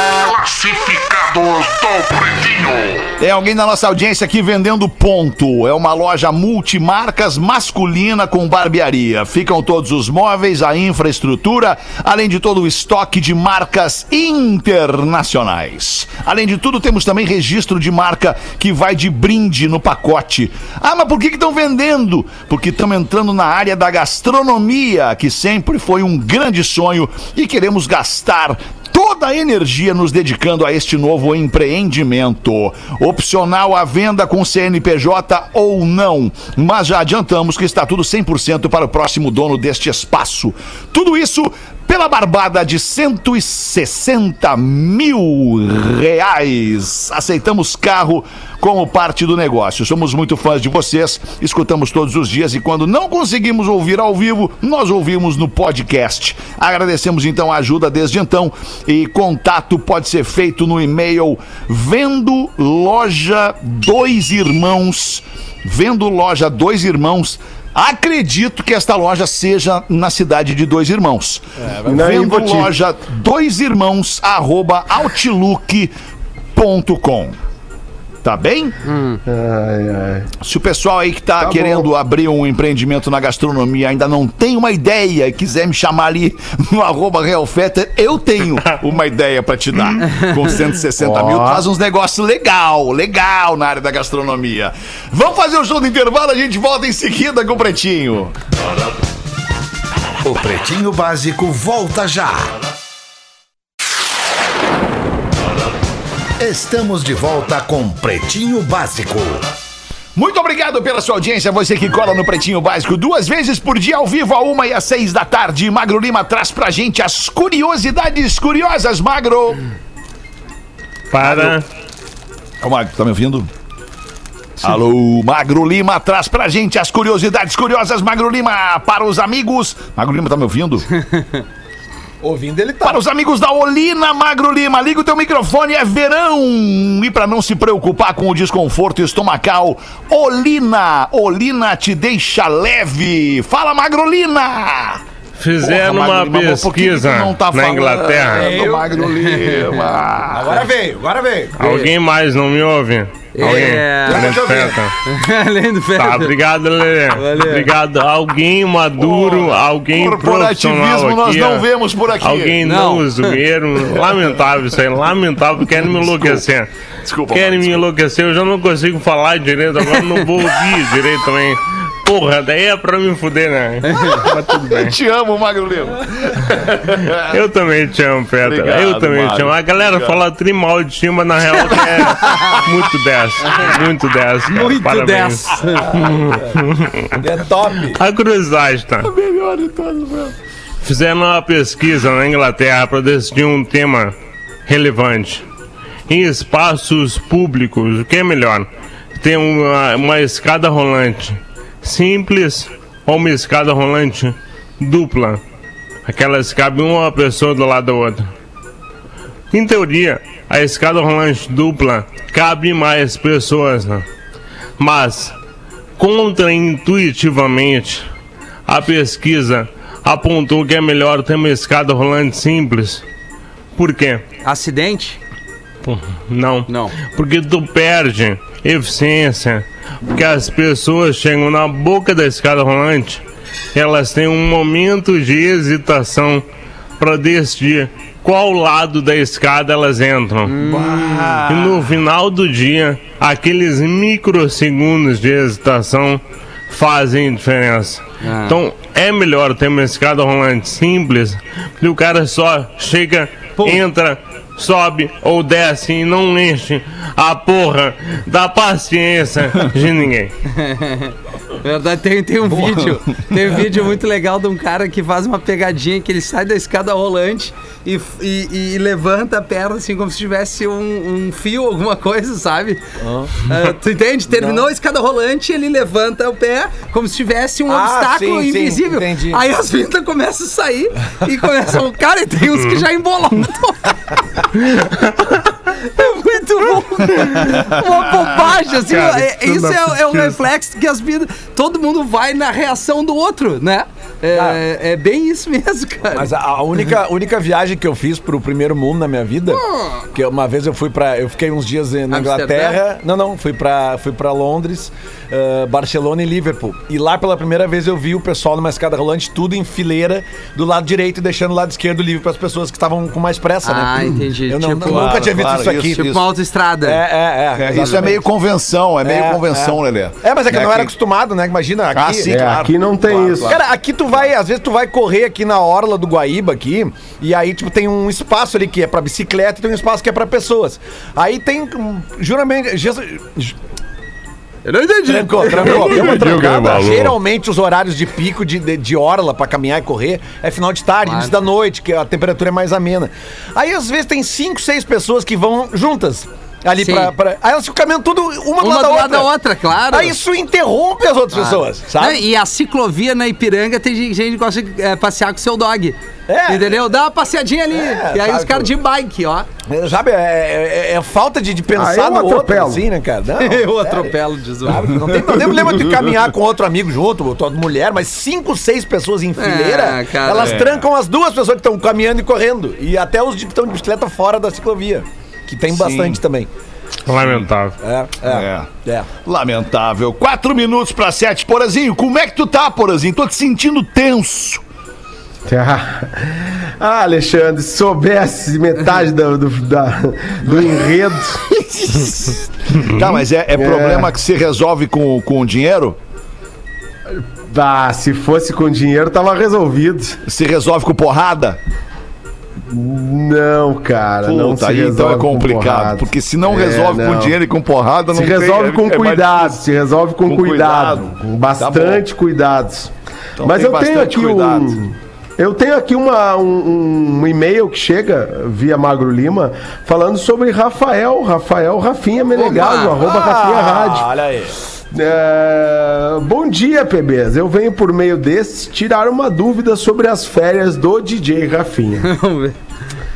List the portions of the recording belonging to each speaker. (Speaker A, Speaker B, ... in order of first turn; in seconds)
Speaker A: 0.2-75.9, 76.5-77.4, 78.2-78.8, 80.4-98.3, 110.1-119.6, 121.2-121.6, 122.6-123.5, 124.6-130.9, 132.8-145.0, 145.6-150.6, 159.0-162.6, 163.9-164.7, 165.7-166.4, 167.0-167.8, 174.3-177.4, 178.4-180.2, 181.5-182.0, 189.0-190.3, 240.6-241.9, 262.4-263.6, 314.9-316.2, 317.6-320.9, 321.9-324.2, 365.1-366.1, 370.4-370.9, 375.7-376.2, 377.1-377.4, 378.2-378.7, 379.2-384.6, 390.4-390.8, 391.5-396.0, 400.2-401.6, 404.2-409.6, 410.2-412.0, 413.4-414.8
Speaker B: 71.6-72.2, 132.2-133.0, 148.3-148.9, 150.3-151.6, 153.4-154.8, 187.2-188.0, 273.0-273.4, 274.3-274.6, 277.7-279.4, 294.3-294.6, 296.1-316.1, 316.8-318.2, 319.0-322.4, 323.5-333.5, 335.1-349.3, 349.9-352.2, 356.3-356.8, 357.7-358.7, 359.7-376.5, 377.8-379.1, 422.3-424.5
Speaker C: 71.8-72.7, 79.2-80.3, 81.4-81.9, 91.0-91.7, 322.3-323.6, 361.8-362.8, 385.5-391.4, 393.6-394.1, 397.1-400.2, 402.7-407.4, 408.1-424.1, 424.9-432.1
Speaker D: 78.8-79.2, 149.1-149.7, 151.6-151.9, 153.3-154.3, 155.1-156.3, 157.1-157.7, 162.6-163.3, 184.5-186.1, 224.4-225.2, 226.7-226.9, 240.5-241.4, 248.2-248.6, 253.6-253.8, 260.5-272.8, 273.4-283.9, 285.8-296.3, 302.1-302.8, 313.6-317.0, 334.6-336.2, 341.1-341.3, 346.8-347.1, 348.6-350.1, 351.3-359.5, 363.4-364.9, 369.4-370.6, 422.4-423.0, 432.0-432.6
Speaker E: 100.2-102.5, 106.4-109.5
Speaker F: 121.1-121.6, 145.4-148.6, 151.6-154.9, 155.9-161.7, 162.2-166.7, 167.3-174.9, 176.5-187.2, 187.9-189.1, 190.8-194.1, 194.7-195.4, 196.1-205.4, 206.1-208.3, 209.5-214.0, 214.8-215.3, 216.0-218.1, 218.7-223.0, 223.7-224.2, 225.8-233.2, 233.7-236.4, 237.0-240.5, 241.4-260.3, 282.5-282.8, 287.2-287.6, 288.8-290.4, 335.9-337.1, 377.1-377.8